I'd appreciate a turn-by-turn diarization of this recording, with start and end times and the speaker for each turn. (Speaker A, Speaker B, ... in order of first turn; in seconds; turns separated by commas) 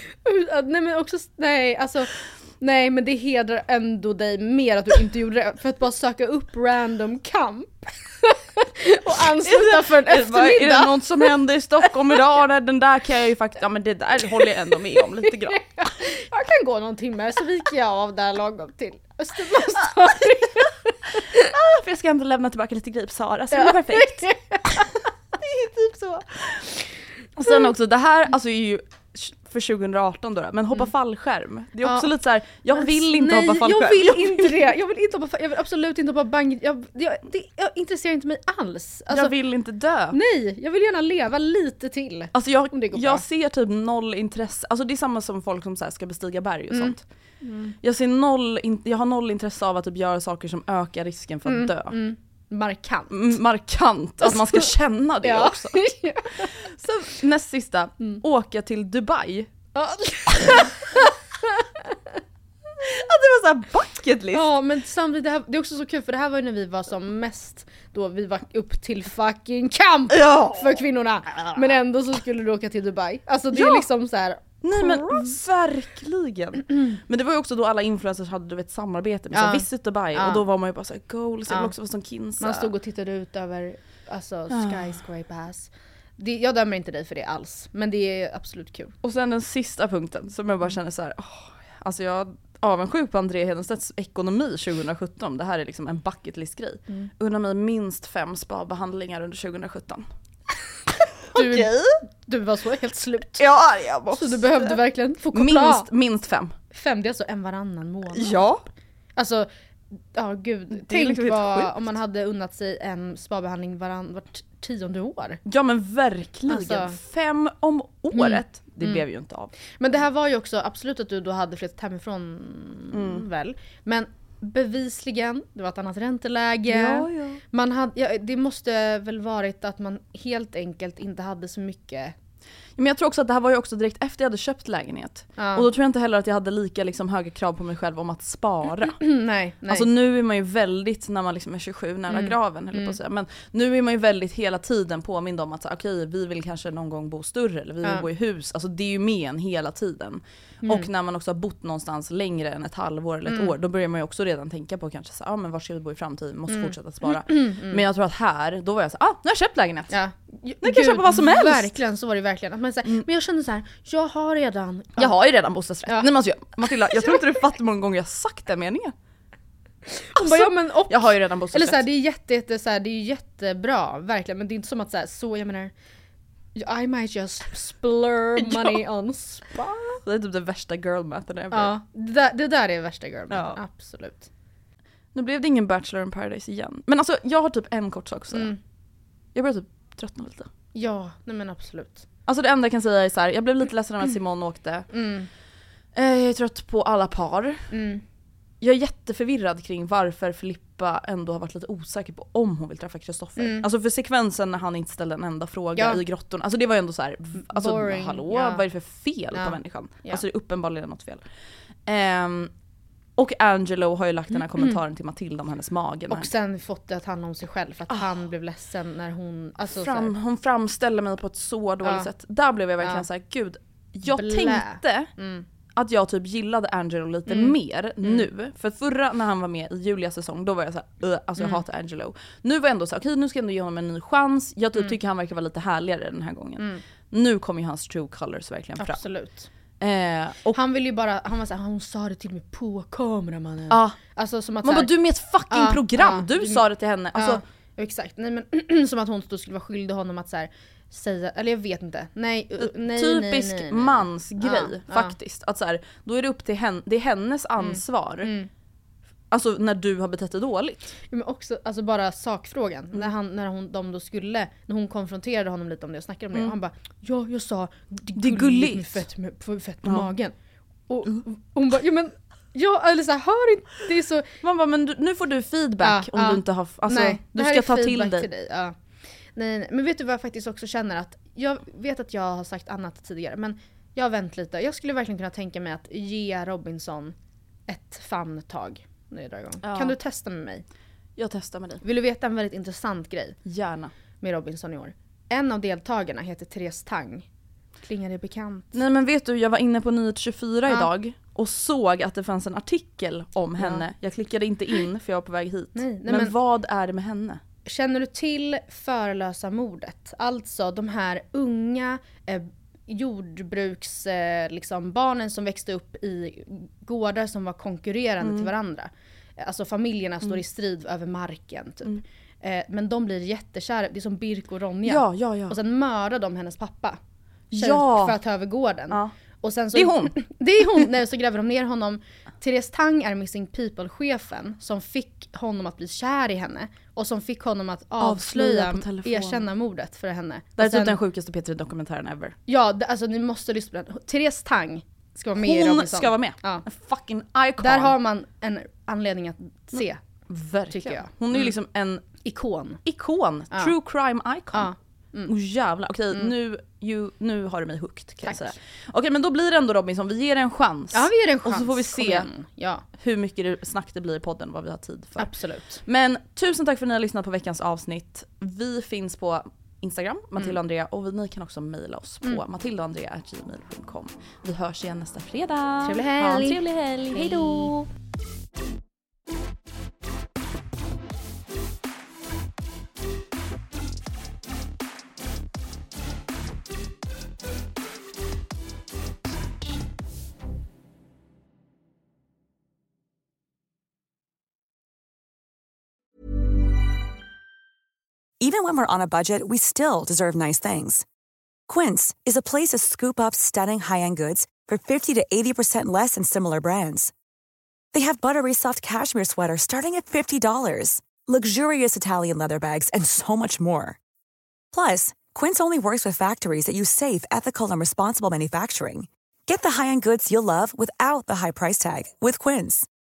Speaker A: 0.2-11.0, Speaker B: 9.4-15.6, Speaker A: 15.3-20.9, Speaker B: 19.7-26.8, Speaker A: 23.5-25.0, Speaker B: 27.4-34.6, Speaker A: 31.8-32.1, Speaker A: 32.7-39.3, Speaker B: 39.1-40.2, Speaker A: 40.1-43.2, Speaker B: 42.3-47.0, Speaker A: 46.7-47.7, Speaker B: 47.8-52.0, Speaker A: 51.5-53.1, Speaker B: 53.1-59.5, Speaker A: 54.2-54.6, Speaker A: 55.2-56.5, Speaker A: 59.8-61.9, Speaker B: 62.8-64.5, Speaker A: 64.3-75.4, Speaker B: 70.1-70.8, Speaker B: 73.5-73.9, Speaker B: 74.6-82.7, Speaker A: 79.3-80.5, Speaker A: 82.4-88.9, Speaker B: 84.5-85.0, Speaker B: 89.0-100.1, Speaker B: 101.3-102.0, Speaker A: 101.3-101.7, Speaker A: 102.3-103.4, Speaker B: 103.4-104.8, Speaker A: 104.1-105.9, Speaker B: 105.3-106.5, Speaker A: 106.7-108.4, Speaker B: 108.1-108.7, Speaker A: 109.2-109.5, Speaker A: 110.1-115.4, Speaker B: 110.7-111.9, Speaker B: 115.5-119.5, Speaker A: 116.5-117.0, Speaker A: 118.1-119.0, Speaker A: 119.7-132.2, Speaker B: 122.9-123.3, Speaker B: 126.7-127.4, Speaker B: 132.8-139.0, Speaker A: 135.4-135.7, Speaker A: 139.0-139.9, Speaker B: 139.7-159.9, Speaker A: 142.1-142.9, Speaker A: 153.3-153.5, Speaker A: 156.5-157.8, Speaker A: 159.9-165.1, Speaker B: 160.6-161.8, Speaker B: 165.0-168.9, Speaker A: 169.9-175.7, Speaker B: 170.2-171.8, Speaker A: 176.6-180.0, Speaker B: 178.4-178.8, Speaker B: 180.1-181.7, Speaker A: 181.5-184.3, Speaker B: 183.3-183.6, Speaker B: 185.1-188.5, Speaker A: 188.3-188.6, Speaker B: 189.3-190.5, Speaker A: 190.7-192.0, Speaker B: 192.3-194.9, Speaker A: 194.9-195.3, Speaker B: 195.9-197.7, Speaker A: 197.7-198.0, Speaker B: 198.6-211.2, Speaker A: 203.4-203.7, Speaker A: 207.4-208.6, Speaker A: 209.3-210.2, Speaker B: 211.9-212.5, Speaker B: 213.2-216.3, Speaker A: 216.1-220.1, Speaker B: 217.9-218.2, Speaker B: 219.6-225.1, Speaker A: 224.1-225.5, Speaker B: 225.8-239.0, Speaker A: 227.3-228.3, Speaker A: 238.8-239.5, Speaker B: 239.8-240.6, Speaker A: 240.5-244.9, Speaker B: 243.7-244.0, Speaker B: 244.6-247.4, Speaker A: 245.5-246.6, Speaker A: 247.2-255.2, Speaker B: 252.6-258.3, Speaker A: 257.6-258.5, Speaker B: 259.3-260.9, Speaker A: 261.1-270.3, Speaker B: 268.2-269.1, Speaker A: 270.9-274.3, Speaker B: 274.4-278.3, Speaker A: 275.8-278.8, Speaker A: 279.4-287.1, Speaker A: 287.7-290.6, Speaker B: 289.6-290.0, Speaker B: 291.2-291.8, Speaker A: 291.8-293.4, Speaker B: 293.4-293.9, Speaker A: 294.2-297.3, Speaker A: 297.8-298.8, Speaker B: 298.7-307.4, Speaker A: 303.6-303.8, Speaker A: 305.8-306.3, Speaker A: 307.7-327.0, Speaker B: 318.2-318.5, Speaker B: 324.9-325.6, Speaker B: 327.5-328.2, Speaker A: 327.5-341.0, Speaker B: 329.7-330.2, Speaker B: 338.0-339.5, Speaker B: 340.6-342.4, Speaker A: 342.5-346.6, Speaker B: 345.4-347.9, Speaker A: 347.6-350.0, Speaker B: 349.8-352.1, Speaker A: 350.7-351.5, Speaker A: 352.2-352.8, Speaker B: 352.9-354.7, Speaker A: 354.5-355.3, Speaker B: 355.3-362.3, Speaker A: 358.2-358.5, Speaker A: 360.9-362.8, Speaker B: 363.0-365.3, Speaker A: 365.2-365.8, Speaker B: 365.9-377.9, Speaker A: 375.8-377.7, Speaker C: 398.4-401.1, Speaker C: 401.7-407.1, Speaker C: 407.9-414.0, Speaker C: 414.7-422.9